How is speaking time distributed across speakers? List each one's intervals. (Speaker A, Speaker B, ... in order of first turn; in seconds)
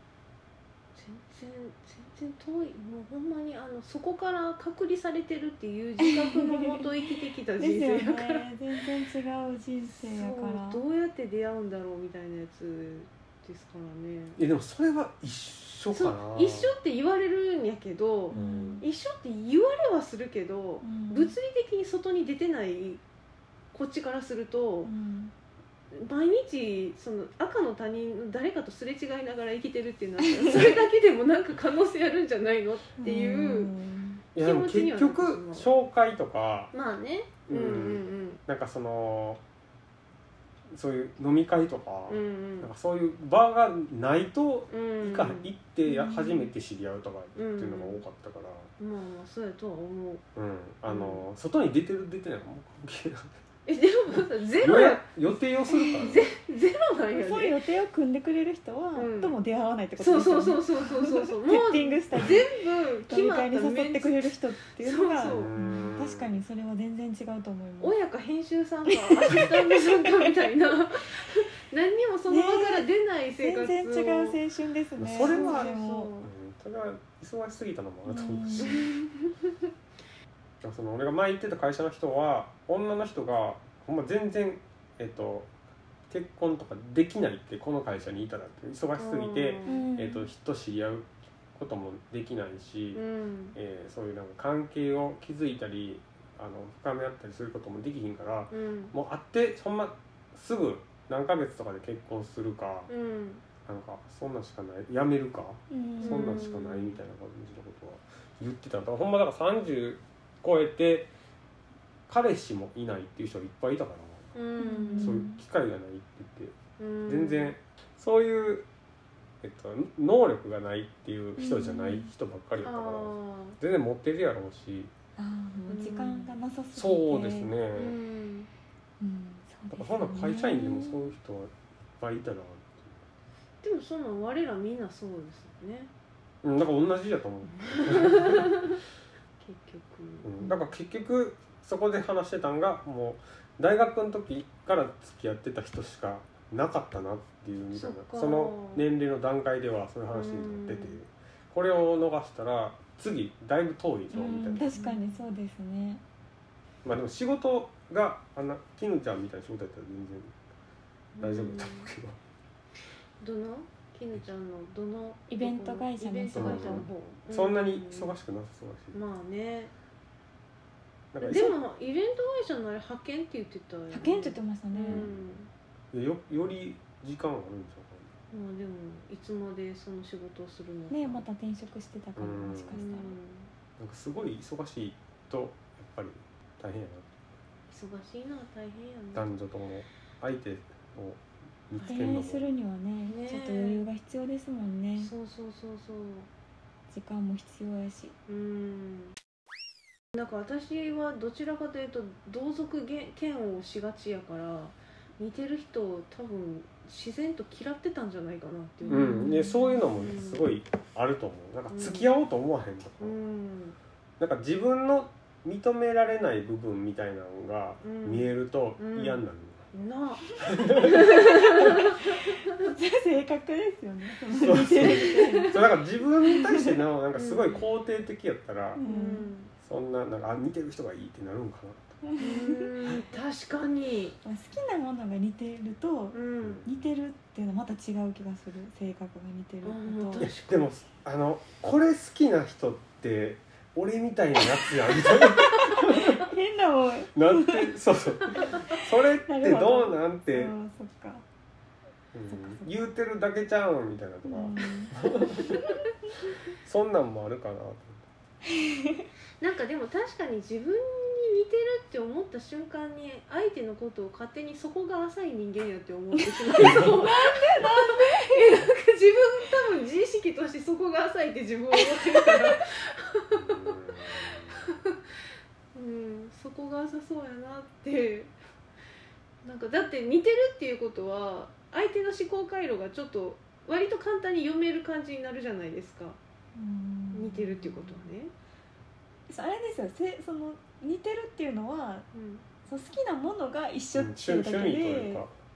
Speaker A: 0.9-8.4, 9.9-14.4, 15.9-23.0, 23.7-24.9, 25.9-33.7, 34.4-35.7, 36.7-38.4, 42.1-42.7, 44.7-45.5, 47.4-48.0, 48.8-50.2, 50.9-51.2, 53.7-55.1, 56.0-57.6, 59.0-59.4, 60.0-65.5, 67.8-74.4, 75.1-76.3, 78.6-79.3, 89.0-89.8, 92.9-93.6, 98.5-98.9, 102.9-103.4, 106.0-107.0, 114.3-115.2, 116.8-117.5, 122.6-123.6, 125.7-126.3, 127.7-128.5, 133.6-135.9, 137.6-138.8, 139.4-140.6, 147.7-148.9, 150.1-151.0, 154.2-155.0, 161.2-161.9, 163.2-168.1, 168.9-169.7, 171.2-175.5, 178.3-181.2, 182.7-183.5, 187.7-189.3, 191.8-192.1, 193.1-193.8, 195.0-196.3, 198.3-199.2, 200.2-210.4, 211.7-212.1, 213.0-213.8, 217.8-219.2, 219.7-222.7, 224.8-225.5, 227.2-227.6, 228.8-229.5, 232.2-234.2, 236.1-236.7, 239.6-240.7, 259.4-275.0, 275.7-278.3, 279.4-286.2, 287.1-288.3, 292.1-292.4
Speaker B: 6.0-10.8, 18.3-18.9, 20.8-21.4, 24.9-25.3, 33.0-34.2, 45.9-46.5, 55.7-56.1, 57.1-68.0, 68.9-70.0, 72.3-72.9, 73.4-76.1, 78.1-78.8, 89.7-90.3, 105.7-106.4, 114.6-115.4, 121.4-122.1, 125.2-127.5, 129.0-131.1, 154.1-156.0, 165.3-166.9, 173.9-175.1, 180.9-183.2, 191.8-195.1, 196.9-198.2, 208.8-209.8, 222.6-225.7, 226.3-226.8, 228.8-229.3, 232.0-232.7, 234.2-240.2, 245.1-247.8, 248.4-251.2, 252.3-252.7, 254.2-255.0, 258.5-259.1, 266.2-268.6, 271.9-272.5, 286.6-288.1, 289.3-292.1, 292.7-295.2
Speaker C: 14.4-16.7, 18.4-18.8, 34.4-36.7, 37.5-39.4, 40.7-48.7, 50.4-53.3, 54.6-56.2, 65.3-66.4, 75.0-75.7, 76.2-78.8, 80.6-85.5, 86.1-93.0, 93.5-102.9, 103.7-111.1, 112.1-114.3, 115.0-116.6, 117.1-118.7, 119.4-124.9, 126.7-128.0, 129.7-133.0, 136.4-138.5, 140.2-154.7, 156.8-160.4, 161.2-162.2, 166.3-169.0, 171.1-171.6, 174.9-175.3, 175.9-178.1, 182.2-182.8, 183.8-187.1, 189.1-192.5, 208.9-213.2, 214.2-219.7, 220.4-221.2, 224.3-228.8, 229.6-232.0, 240.2-246.3, 247.2-250.5, 252.1-255.6, 256.6-258.0, 266.6-266.9, 273.3-274.7, 293.9-295.3